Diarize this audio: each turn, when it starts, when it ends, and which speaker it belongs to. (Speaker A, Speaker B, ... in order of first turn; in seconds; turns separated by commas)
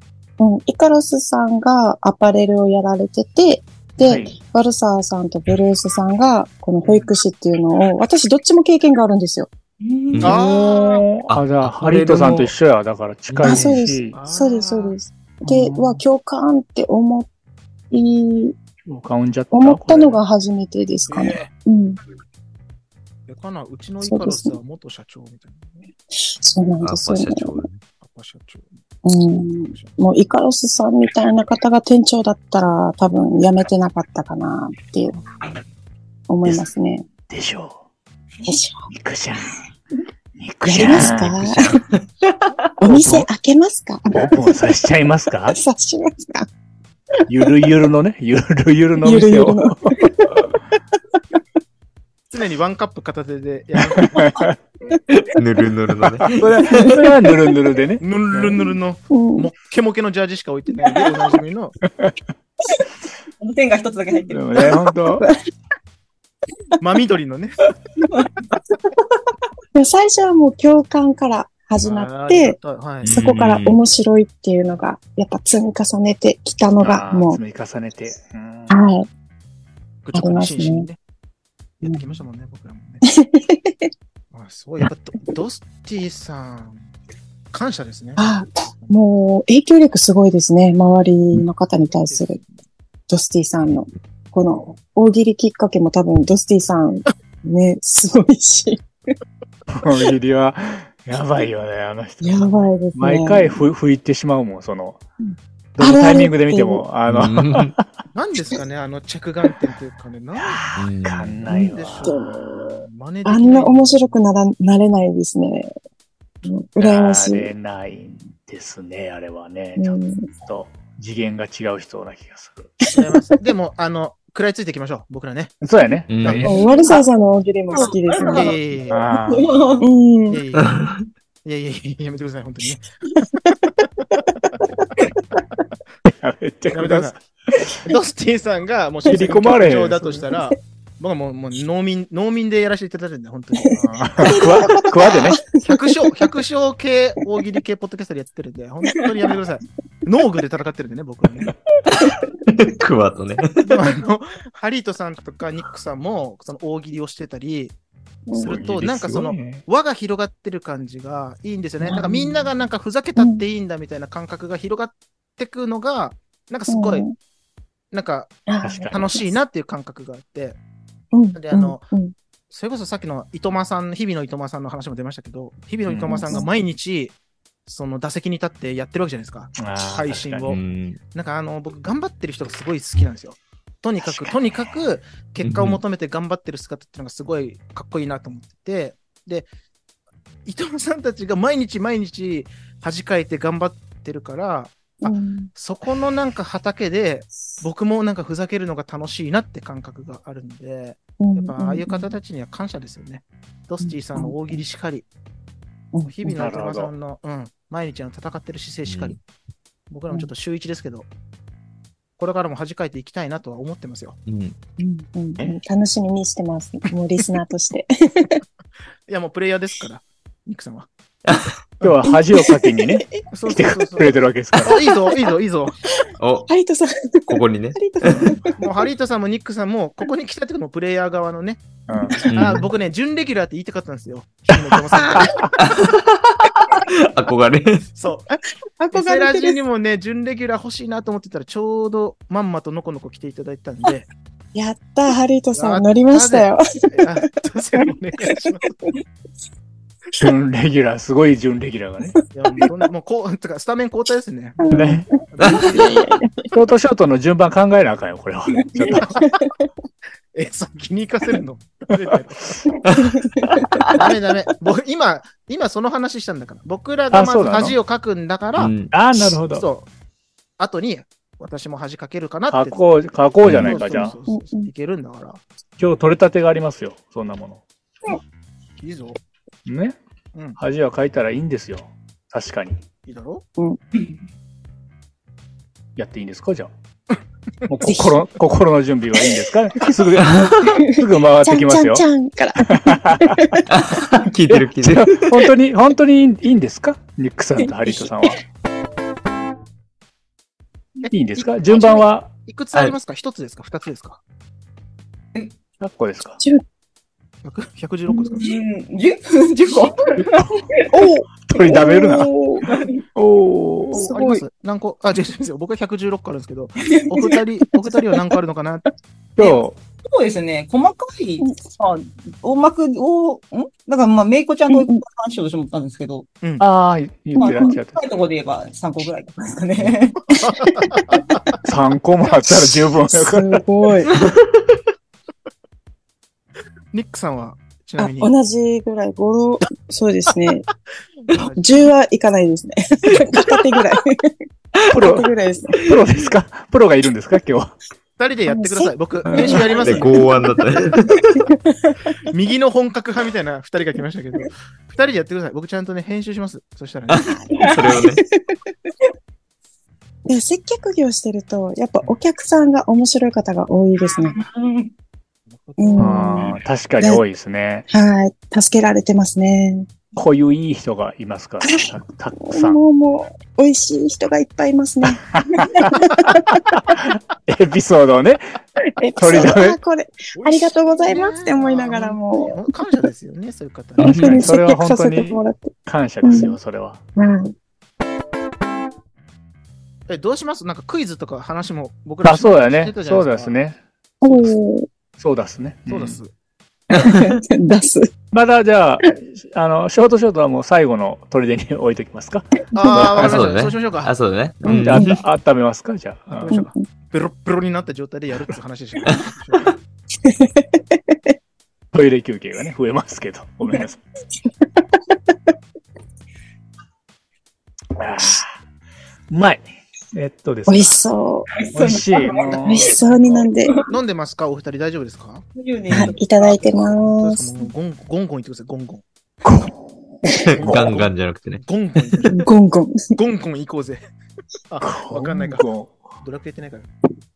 Speaker A: 0.4-9.5, Speaker B: 4.0-4.3, Speaker C: 6.8-7.1, Speaker D: 9.8-10.2, Speaker C: 10.2-11.0, Speaker B: 10.2-14.2, Speaker E: 11.3-12.5, Speaker E: 13.3-13.8, Speaker A: 13.4-17.3, Speaker C: 14.1-15.0, Speaker B: 15.4-16.0, Speaker A: 17.9-18.6, Speaker B: 18.9-20.2, Speaker A: 19.5-22.0, Speaker C: 21.1-21.5, Speaker C: 23.3-25.9, Speaker A: 24.0-24.6, Speaker A: 26.2-27.6, Speaker E: 26.8-27.8, Speaker C: 28.0-28.8, Speaker A: 29.1-35.2, Speaker C: 29.6-30.0, Speaker C: 35.1-35.4, Speaker A: 36.3-37.1, Speaker B: 37.3-37.8, Speaker A: 38.4-38.9, Speaker B: 38.9-39.6, Speaker B: 40.4-41.8, Speaker A: 40.7-41.8, Speaker A: 42.8-44.6, Speaker B: 42.8-43.3, Speaker B: 44.1-45.6, Speaker A: 45.5-46.5, Speaker B: 47.3-50.5, Speaker A: 49.0-50.3, Speaker C: 52.3-54.3, Speaker B: 54.0-54.5, Speaker E: 55.1-57.0, Speaker B: 56.1-58.6, Speaker C: 58.0-61.8, Speaker A: 59.1-59.5, Speaker D: 63.4-64.7, Speaker B: 64.3-65.3, Speaker A: 64.6-65.3, Speaker C: 66.8-67.7, Speaker D: 68.0-68.3, Speaker A: 69.8-77.4, Speaker C: 71.8-73.1, Speaker E: 73.0-73.8, Speaker B: 76.8-78.8, Speaker A: 78.7-79.1, Speaker C: 80.0-81.0, Speaker A: 80.1-80.9, Speaker C: 81.8-83.0, Speaker A: 83.1-83.9, Speaker C: 84.3-86.9, Speaker C: 87.5-89.0, Speaker A: 88.2-92.4, Speaker C: 91.8-92.6, Speaker A: 93.1-98.8, Speaker B: 99.7-105.0, Speaker A: 102.2-103.6, Speaker A: 105.2-106.8, Speaker B: 105.8-108.0, Speaker E: 107.1-107.8, Speaker C: 108.1-110.6, Speaker B: 110.4-112.3, Speaker E: 110.8-111.4, Speaker A: 111.5-115.7, Speaker C: 111.6-114.1, Speaker A: 116.5-117.5, Speaker B: 116.8-122.7, Speaker A: 119.8-120.3, Speaker A: 122.8-123.1, Speaker C: 122.9-125.5, Speaker B: 125.6-126.6, Speaker E: 126.1-126.5, Speaker C: 126.2-126.7, Speaker A: 126.5-128.5, Speaker D: 126.7-127.0, Speaker D: 127.7-128.6, Speaker C: 128.3-129.0, Speaker B: 128.9-129.5, Speaker D: 129.2-129.9, Speaker A: 129.8-130.4, Speaker C: 130.3-130.8, Speaker E: 130.6-131.0, Speaker C: 131.4-132.8, Speaker B: 136.1-137.9, Speaker C: 136.7-137.2, Speaker C: 137.8-144.4, Speaker B: 139.1-140.2, Speaker B: 144.0-145.4, Speaker A: 144.2-146.1, Speaker C: 145.6-151.5, Speaker E: 152.0-153.6, Speaker C: 153.7-157.8, Speaker A: 158.3-158.6, Speaker B: 158.3-159.6, Speaker C: 158.3-167.1, Speaker A: 161.8-162.5, Speaker A: 163.2-163.4, Speaker A: 166.7-167.2, Speaker C: 167.9-170.6, Speaker A: 168.5-169.0, Speaker B: 168.6-169.2, Speaker A: 171.1-172.1, Speaker C: 171.3-171.8, Speaker C: 172.5-177.1, Speaker A: 176.1-176.5, Speaker C: 177.7-180.6, Speaker B: 179.6-180.5, Speaker E: 180.5-181.0, Speaker C: 181.1-189.5, Speaker E: 185.4-185.8, Speaker C: 190.5-205.1, Speaker A: 195.0-195.5, Speaker A: 201.2-202.1, Speaker A: 203.8-204.6, Speaker A: 205.9-206.4, Speaker C: 206.0-209.2, Speaker B: 206.3-206.9, Speaker E: 208.9-209.2, Speaker C: 209.9-211.1, Speaker C: 212.2-214.2, Speaker E: 214.3-214.6, Speaker A: 214.8-218.4, Speaker C: 219.1-220.9, Speaker B: 221.8-224.8, Speaker A: 222.0-223.2, Speaker C: 223.3-225.8, Speaker E: 226.2-226.5, Speaker A: 226.5-228.7, Speaker E: 227.3-228.3, Speaker C: 228.6-231.6, Speaker B: 231.9-232.2, Speaker A: 232.0-232.2, Speaker C: 232.2-235.4, Speaker E: 232.3-232.7, Speaker B: 234.5-235.5, Speaker A: 235.0-235.4, Speaker E: 235.6-237.8, Speaker C: 237.9-238.4, Speaker A: 238.8-239.6, Speaker C: 238.9-244.1, Speaker A: 244.5-247.1, Speaker C: 245.6-248.8, Speaker B: 250.2-252.2, Speaker C: 252.3-254.7, Speaker A: 254.6-256.5, Speaker B: 254.7-255.1, Speaker C: 255.3-256.1, Speaker B: 256.5-259.2, Speaker A: 258.9-259.5, Speaker C: 259.0-259.3, Speaker C: 260.3-262.6, Speaker A: 263.3-264.0, Speaker C: 263.9-268.7, Speaker B: 267.1-267.8, Speaker E: 268.6-268.9, Speaker B: 268.9-269.7, Speaker C: 269.5-269.9, Speaker C: 270.6-272.8, Speaker B: 272.5-274.2, Speaker E: 273.4-273.8, Speaker C: 273.5-275.4, Speaker A: 274.3-274.7, Speaker B: 275.8-277.6, Speaker C: 278.8-279.2, Speaker B: 279.7-280.0, Speaker B: 280.6-282.8, Speaker C: 283.1-283.4, Speaker B: 286.0-286.7, Speaker B: 287.7-292.0, Speaker A: 287.9-288.2, Speaker E: 290.2-290.7, Speaker A: 290.9-293.6, Speaker B: 292.7-293.6, Speaker E: 293.7-295.4, Speaker B: 294.5-298.4, Speaker C: 301.0-304.2, Speaker B: 301.1-302.3, Speaker B: 305.8-306.4, Speaker C: 307.4-308.6, Speaker D: 308.4-311.0, Speaker A: 310.9-312.6, Speaker B: 311.4-312.3, Speaker D: 312.6-313.0, Speaker B: 313.1-314.1, Speaker A: 313.9-314.4, Speaker C: 313.9-318.9, Speaker D: 316.8-317.4, Speaker B: 319.4-319.8, Speaker D: 319.4-326.3, Speaker A: 324.7-325.0, Speaker B: 326.6-328.0, Speaker D: 327.4-330.3, Speaker A: 327.4-327.8, Speaker C: 330.3-331.4, Speaker B: 331.6-333.6, Speaker A: 333.1-334.1, Speaker C: 336.9-338.3, Speaker A: 338.0-340.7, Speaker C: 341.3-341.9, Speaker A: 341.6-344.4, Speaker B: 344.9-345.3, Speaker A: 344.9-345.8, Speaker B: 345.8-347.8, Speaker C: 348.2-350.3, Speaker A: 348.5-349.9, Speaker B: 349.3-349.7, Speaker E: 349.8-351.3, Speaker A: 351.3-352.0, Speaker C: 352.2-357.3, Speaker E: 357.1-358.2, Speaker A: 357.3-358.6, Speaker D: 357.5-358.0, Speaker A: 360.3-364.4, Speaker D: 364.1-364.9, Speaker C: 365.5-366.4, Speaker A: 365.8-367.2, Speaker B: 366.0-367.9, Speaker A: 367.9-369.9, Speaker B: 370.2-372.8, Speaker A: 371.6-371.9, Speaker A: 372.4-376.4, Speaker B: 375.4-379.8, Speaker A: 379.0-382.6, Speaker C: 380.3-384.4, Speaker A: 384.0-386.6, Speaker B: 384.0-387.0, Speaker A: 387.2-387.5, Speaker C: 390.1-393.6, Speaker B: 392.2-394.5, Speaker A: 394.2-394.9, Speaker B: 395.2-396.2, Speaker C: 395.9-396.3, Speaker A: 396.9-398.1, Speaker B: 398.3-403.5, Speaker C: 402.7-404.1, Speaker A: 402.8-403.1, Speaker E: 403.2-405.2, Speaker B: 404.7-406.6, Speaker A: 404.7-405.2, Speaker C: 406.3-409.7, Speaker A: 406.5-406.8, Speaker A: 410.2-411.3, Speaker B: 411.9-414.0, Speaker A: 415.1-415.4, Speaker B: 418.0-418.5, Speaker B: 419.3-421.0, Speaker A: 420.7-421.5, Speaker D: 421.5-423.9, Speaker B: 421.7-422.9, Speaker A: 422.7-423.7, Speaker C: 423.9-425.4, Speaker D: 425.6-426.6, Speaker A: 425.9-427.5, Speaker C: 426.9-429.0, Speaker B: 429.5-429.8, Speaker E: 430.5-431.6, Speaker C: 430.6-432.4, Speaker A: 432.3-433.1, Speaker C: 433.1-434.0, Speaker C: 434.7-435.7, Speaker B: 434.8-436.0, Speaker C: 436.2-436.9